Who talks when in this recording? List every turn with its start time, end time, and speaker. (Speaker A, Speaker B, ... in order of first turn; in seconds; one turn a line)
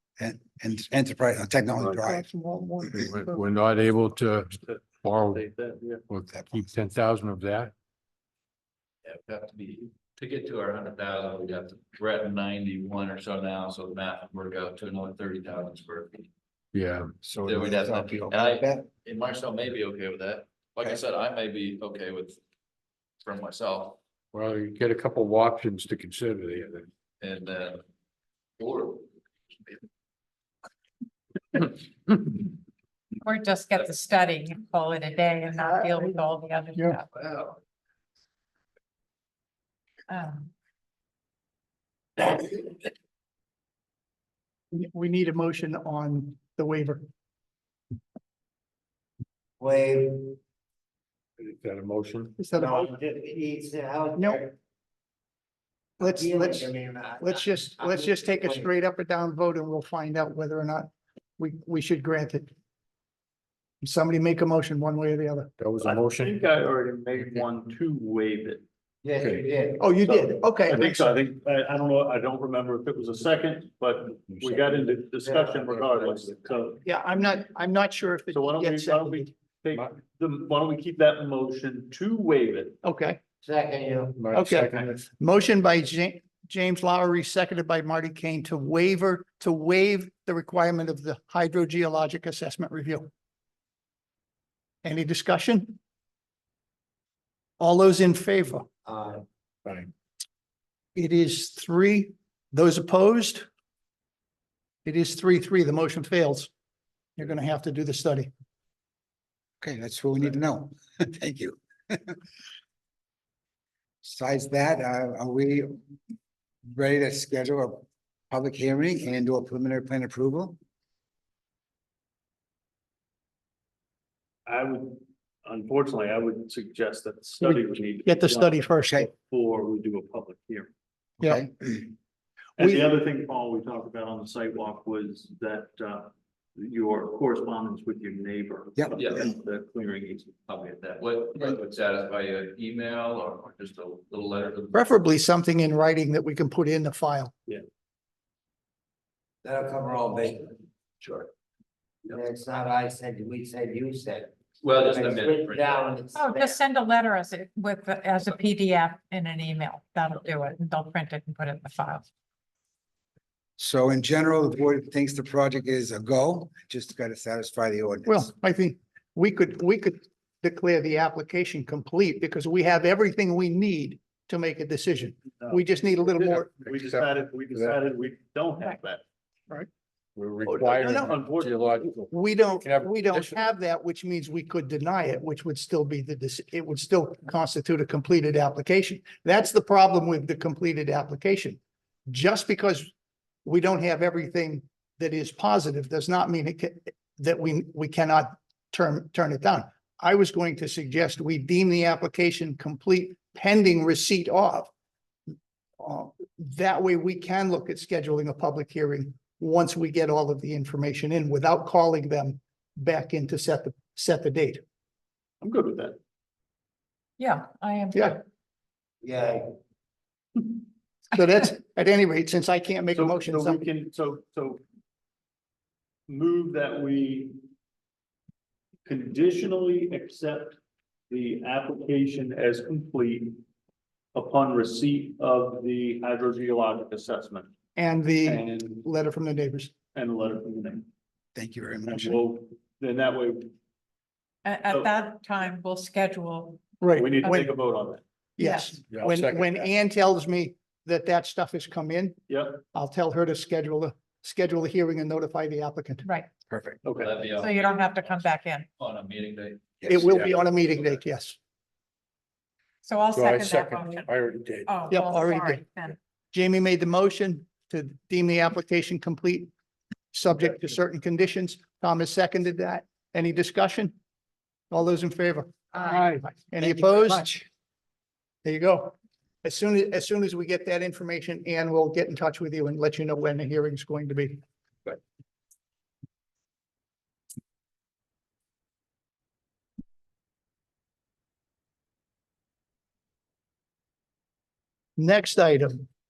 Speaker A: 0.2-2.3
Speaker B: 1.8-3.4
Speaker C: 3.0-5.4
Speaker D: 4.6-6.0
Speaker C: 6.1-7.7
Speaker E: 9.1-16.3
Speaker C: 16.7-17.1
Speaker A: 17.2-18.9
Speaker E: 17.5-22.4
Speaker E: 23.2-24.0
Speaker C: 24.3-26.9
Speaker E: 27.2-27.8
Speaker E: 28.6-29.1
Speaker F: 33.2-37.1
Speaker B: 35.6-36.2
Speaker E: 37.1-37.6
Speaker F: 40.1-40.5
Speaker B: 44.7-47.0
Speaker G: 49.6-50.4
Speaker C: 51.4-52.5
Speaker B: 52.4-52.8
Speaker G: 52.5-54.5
Speaker B: 54.1-54.4
Speaker B: 56.0-62.5
Speaker G: 56.0-58.7
Speaker B: 63.8-65.5
Speaker C: 65.6-66.4
Speaker D: 65.8-68.6
Speaker G: 69.0-70.0
Speaker C: 69.2-69.5
Speaker B: 69.8-71.1
Speaker D: 70.0-76.8
Speaker G: 74.7-75.7
Speaker E: 75.7-76.3
Speaker B: 76.8-79.3
Speaker D: 78.3-82.8
Speaker B: 82.8-83.2
Speaker G: 83.4-84.3
Speaker C: 84.2-85.0
Speaker B: 84.3-93.1
Speaker B: 94.8-95.8
Speaker B: 97.6-98.7
Speaker G: 98.9-99.2
Speaker B: 101.0-103.5
Speaker B: 104.8-106.5
Speaker B: 107.2-108.3
Speaker A: 109.6-112.2
Speaker A: 114.0-115.8
Speaker A: 116.7-120.6
Speaker D: 124.5-130.7
Speaker B: 127.4-129.1
Speaker A: 131.2-131.8
Speaker D: 132.6-141.0
Speaker B: 132.6-133.0
Speaker E: 139.0-139.3
Speaker E: 141.0-144.9
Speaker B: 144.7-147.3
Speaker G: 149.4-150.6
Speaker E: 151.0-151.3
Speaker G: 152.1-156.6
Speaker E: 154.6-155.9
Speaker F: 156.1-162.1
Speaker A: 163.6-168.3
Speaker B: 168.1-176.6
Speaker D: 175.4-179.0
Speaker C: 176.7-177.8
Speaker C: 180.2-183.4
Speaker D: 180.4-181.7
Speaker B: 180.8-181.2
Speaker B: 181.9-192.9
Speaker B: 193.4-204.7
Speaker B: 205.8-214.6
Speaker D: 215.4-216.0
Speaker F: 217.2-218.2
Speaker G: 219.0-219.5
Speaker B: 221.1-223.7
Speaker D: 222.9-224.6
Speaker D: 226.1-227.3
Speaker D: 228.9-230.6
Speaker D: 231.1-233.4
Speaker D: 234.1-237.5
Speaker B: 237.8-239.8
Speaker D: 238.2-238.8
Speaker D: 239.9-240.9
Speaker A: 241.4-242.2
Speaker D: 241.9-243.5
Speaker F: 244.4-247.4
Speaker B: 246.8-247.5
Speaker D: 247.0-248.0
Speaker B: 248.4-252.2
Speaker F: 248.4-248.8
Speaker C: 248.9-249.6
Speaker D: 252.3-252.6
Speaker B: 252.7-256.1
Speaker F: 256.0-256.3
Speaker D: 256.8-257.2
Speaker E: 256.9-260.2
Speaker F: 257.3-258.7
Speaker B: 259.9-261.4
Speaker F: 262.8-265.9
Speaker C: 263.1-264.8
Speaker B: 264.9-265.6
Speaker B: 266.3-269.5
Speaker B: 270.1-273.9
Speaker B: 274.7-275.8
Speaker F: 275.8-276.1
Speaker B: 276.4-277.4
Speaker B: 278.4-285.0
Speaker B: 295.0-295.9